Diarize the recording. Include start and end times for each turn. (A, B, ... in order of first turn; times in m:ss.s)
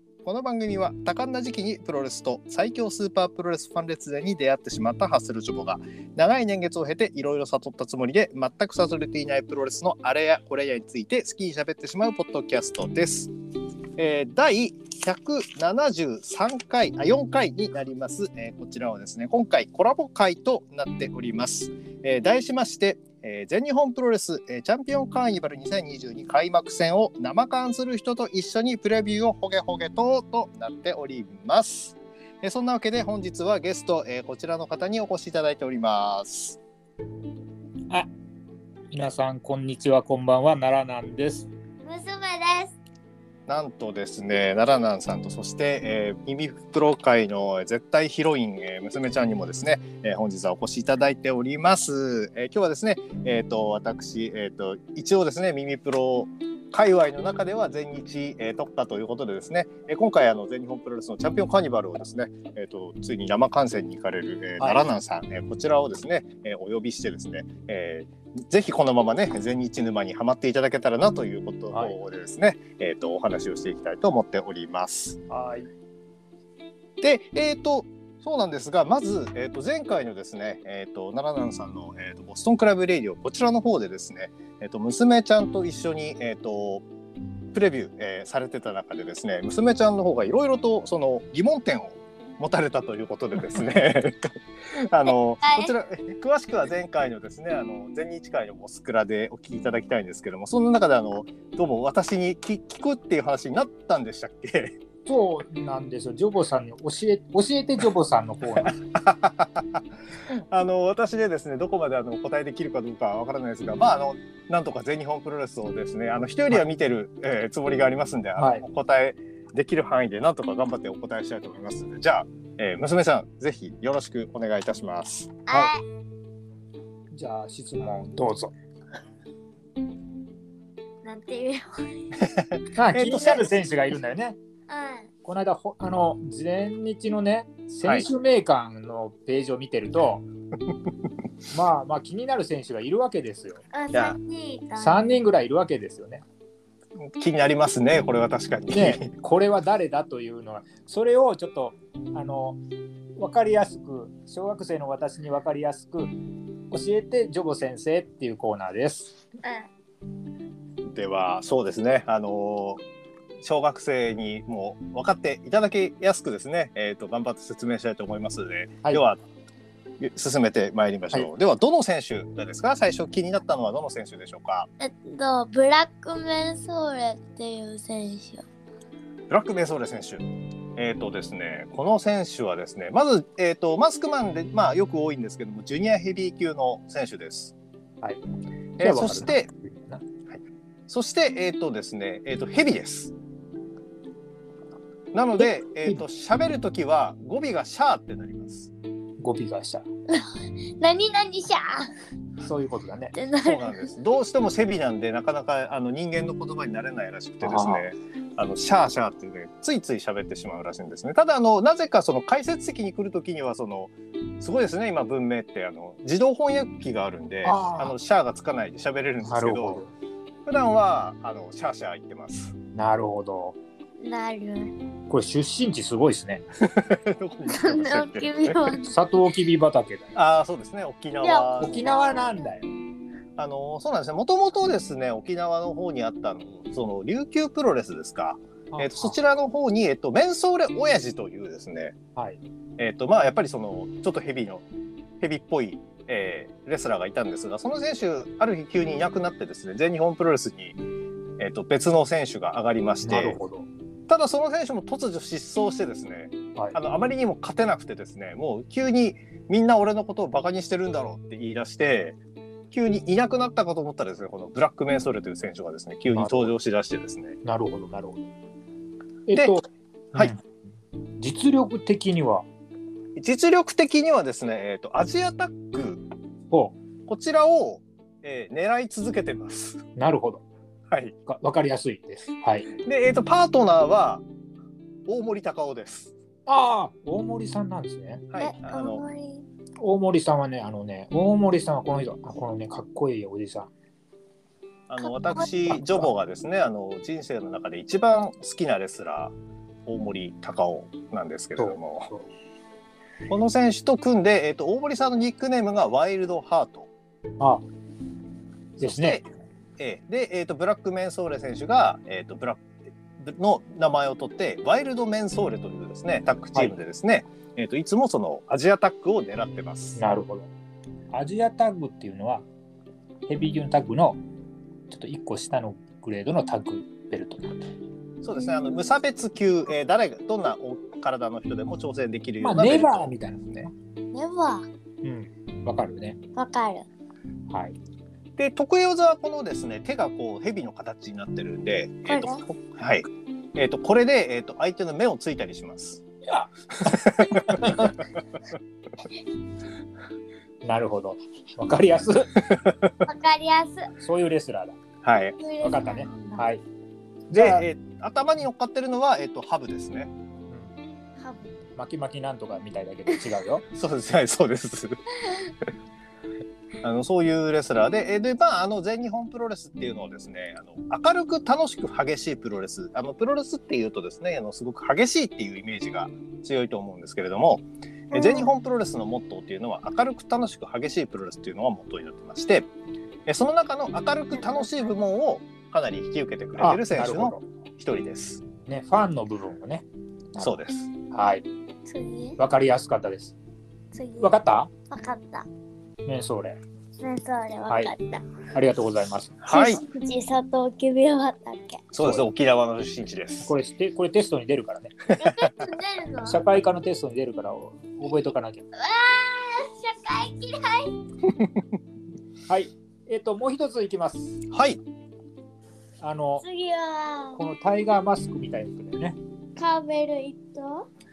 0:00.2-0:13.3 A
0:14.0-0:36.6 A
0:38.9-0:41.5 B
0:41.8-0:42.8 C
0:43.5-1:15.2 A
1:04.6-1:04.8 B
1:15.3-1:15.7 B
1:17.0-1:26.8 A
1:27.5-1:44.8 A
1:35.1-1:35.7 C
1:45.1-1:48.8 B
1:48.6-2:05.4 A
1:58.4-1:58.6 B
2:05.5-2:05.8 C
2:07.1-2:08.5 B
2:11.0-2:12.1 C
2:12.2-2:13.5 A
2:12.8-2:14.4 B
2:14.7-2:15.1 C
2:15.2-2:20.2 B
2:21.5-2:23.6 B
2:23.7-2:25.1 C
2:24.8-2:26.2 B
2:27.0-2:29.1 A
2:28.7-2:32.6 B
2:33.2-2:36.1 B
2:36.7-2:39.2 B
2:39.4-2:39.7 C
2:40.9-2:42.8 A
2:43.4-2:49.2 A
2:50.0-2:54.7 A
2:54.8-2:58.4 C
2:59.3-3:00.2 A
3:00.8-3:07.6 A
3:08.8-3:09.5 A
3:08.8-3:10.0 B
3:10.3-3:13.1 A
3:15.1-3:18.7 A
3:15.4-3:16.0 B
3:19.2-3:19.8 B
3:20.1-3:21.9 C
3:22.4-3:23.1 B
3:23.1-3:23.9 C
3:23.4-3:39.8 A
3:27.4-3:27.8 B
3:37.4-3:38.0 B
3:39.2-3:39.9 B
3:40.5-3:42.6 A
3:42.8-3:43.6 B
3:44.0-3:44.7 C
3:45.1-3:46.4 B
3:46.6-3:48.8 A
3:47.5-3:48.9 C
3:48.8-3:50.1 B
3:50.1-3:52.3 A
3:51.2-3:52.4 C
3:51.6-3:52.7 B
3:53.4-4:02.0 A
3:58.7-3:59.2 B
4:02.8-4:04.6 A
4:05.2-4:10.8 A
4:11.4-4:13.4 A
4:13.0-4:13.7 B
4:14.1-4:22.2 A
4:22.7-4:27.4 A
4:26.1-4:26.5 B
4:27.4-4:28.2 B
4:29.3-4:30.4 B
4:31.2-4:32.4 B
4:33.2-4:36.0 A
4:36.5-4:36.8 B
4:37.0-4:39.8 A
4:40.0-4:40.4 B
4:40.9-4:41.1 A
4:41.2-4:42.7 B
4:42.8-4:44.2 A
4:45.1-4:46.1 A
4:46.5-4:48.2 B
4:48.3-4:49.0 A
4:48.4-4:49.4 C
4:49.8-4:53.7 B
4:54.9-4:59.3 A
4:55.0-4:55.5 C
4:59.8-5:02.1 A
5:01.6-5:02.2 B
5:03.3-5:06.9 A
5:07.4-5:07.6 B
5:08.8-5:09.2 A
5:08.8-5:09.2 B
5:09.8-5:20.0 A
5:20.0-5:20.5 B
5:21.1-5:22.4 B
5:23.3-5:24.2 B
5:24.9-5:27.7 B
5:28.2-5:33.7 A
5:32.4-5:33.7 B
5:34.1-5:34.7 C
5:35.0-5:36.2 B
5:36.4-5:36.9 C
5:37.5-5:37.8 B
5:38.4-5:46.0 A
5:42.0-5:42.4 C
5:46.7-5:48.0 A
5:47.2-5:48.0 B
5:50.6-5:52.5 B
5:52.5-5:52.9 A
5:53.0-5:53.9 C
5:54.0-5:54.8 B
5:55.0-5:55.4 A
5:55.4-5:56.4 C
5:55.6-5:56.6 B
5:57.3-5:57.7 B
5:57.3-6:00.1 A
6:00.5-6:00.7 B
6:01.2-6:01.5 C
6:01.8-6:03.6 B
6:03.7-6:05.0 A
6:05.2-6:05.5 C
6:06.8-6:22.7 A
6:18.1-6:18.4 C
6:23.2-6:28.4 A
6:26.6-6:27.4 B
6:28.6-6:30.6 B
6:30.4-6:30.9 A
6:31.1-6:31.4 B
6:31.8-6:32.4 C
6:32.4-6:33.4 B
6:33.9-6:34.4 C
6:34.2-6:34.7 B
6:34.9-6:35.5 C
6:36.0-6:36.6 B
6:37.0-6:38.2 C
6:37.7-6:37.9 B
6:38.5-6:39.4 B
6:39.4-6:39.8 A
6:39.5-6:41.8 C
6:41.9-6:43.5 A
6:42.0-6:42.2 B
6:43.4-6:45.0 B
6:45.1-6:45.5 A
6:45.1-6:46.4 C
6:46.2-6:48.6 B
6:48.7-6:51.0 C
6:52.5-6:54.4 B
6:54.5-6:54.8 A
6:56.0-6:56.4 B
6:56.4-6:57.4 C
6:57.3-6:59.2 B
6:59.6-7:00.9 C